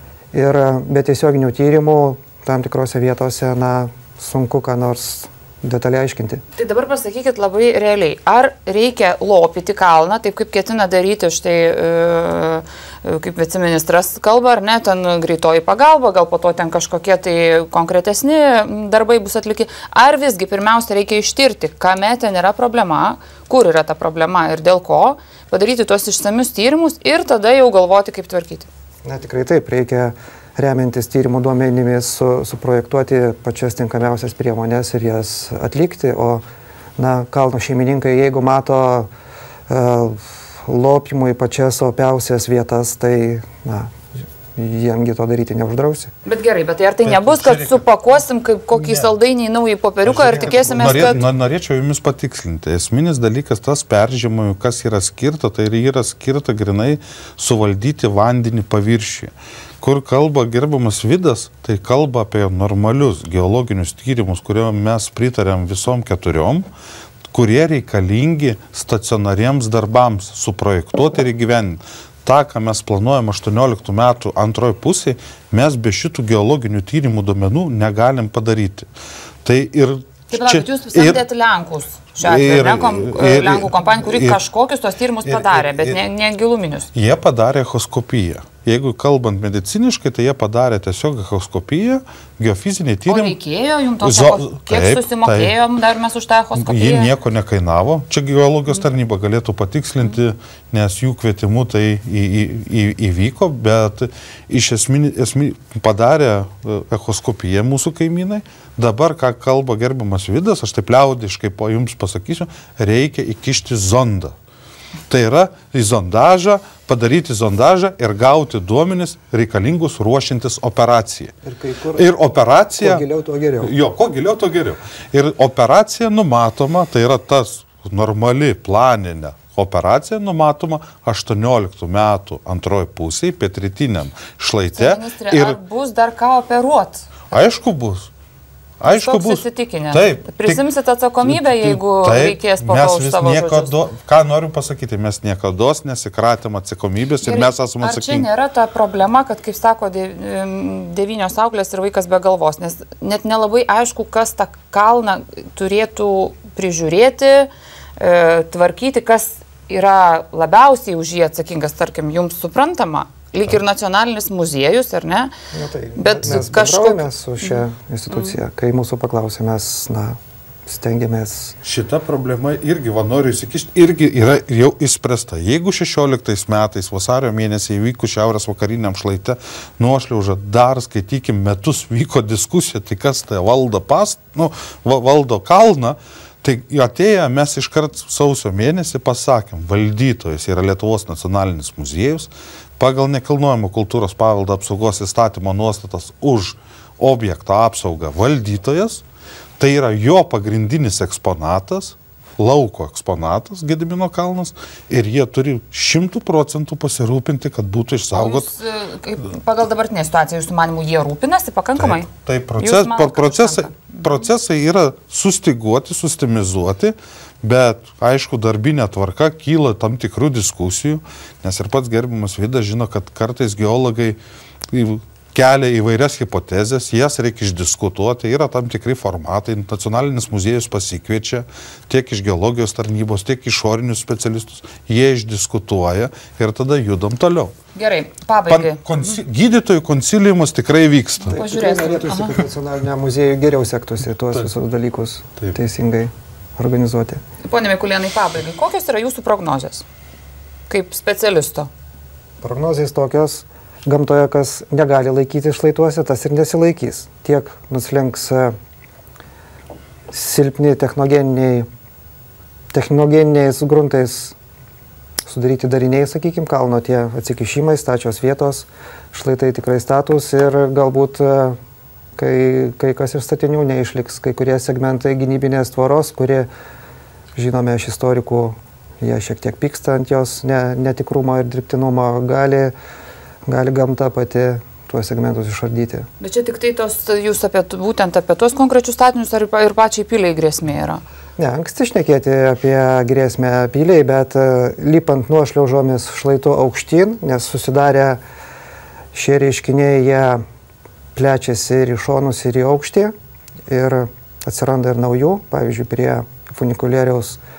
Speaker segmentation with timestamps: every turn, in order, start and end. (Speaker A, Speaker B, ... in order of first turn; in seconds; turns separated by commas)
Speaker A: 0.3-6.4, Speaker B: 6.5-28.7, Speaker A: 29.0-36.4, Speaker A: 37.0-39.1, Speaker A: 39.7-43.9, Speaker A: 44.5-46.1, Speaker B: 46.2-51.2, Speaker C: 47.0-47.9, Speaker C: 48.7-49.1, Speaker C: 50.0-66.7, Speaker A: 50.2-51.0, Speaker C: 67.3-78.9, Speaker C: 79.4-81.2, Speaker B: 80.3-86.9, Speaker C: 82.2-84.4, Speaker C: 85.2-86.0, Speaker C: 86.9-93.4, Speaker B: 93.0-97.1, Speaker C: 94.0-95.5, Speaker C: 96.5-114.3, Speaker C: 115.1-121.3, Speaker A: 121.4-122.1, Speaker C: 121.9-123.0, Speaker A: 122.8-123.7, Speaker C: 123.6-135.6, Speaker B: 134.8-137.3, Speaker C: 137.3-138.1, Speaker C: 138.8-140.6, Speaker B: 138.8-143.8, Speaker C: 141.2-148.3, Speaker B: 147.2-165.3, Speaker A: 165.5-171.5, Speaker B: 165.9-167.6, Speaker C: 171.6-199.0, Speaker C: 199.6-208.5, Speaker B: 208.1-214.2, Speaker C: 211.8-224.2, Speaker C: 224.7-237.5, Speaker B: 237.7-238.8, Speaker C: 238.5-241.4, Speaker B: 241.2-242.4, Speaker A: 241.3-247.2, Speaker B: 247.4-249.8, Speaker B: 250.7-251.7, Speaker A: 252.4-258.5, Speaker A: 260.1-261.7, Speaker A: 262.7-264.4, Speaker A: 265.2-271.6, Speaker A: 272.1-276.5, Speaker A: 277.4-282.7, Speaker A: 283.4-286.1, Speaker B: 286.2-291.0, Speaker A: 291.4-298.2, Speaker A: 299.1-300.4, Speaker A: 301.1-303.1, Speaker A: 303.7-307.4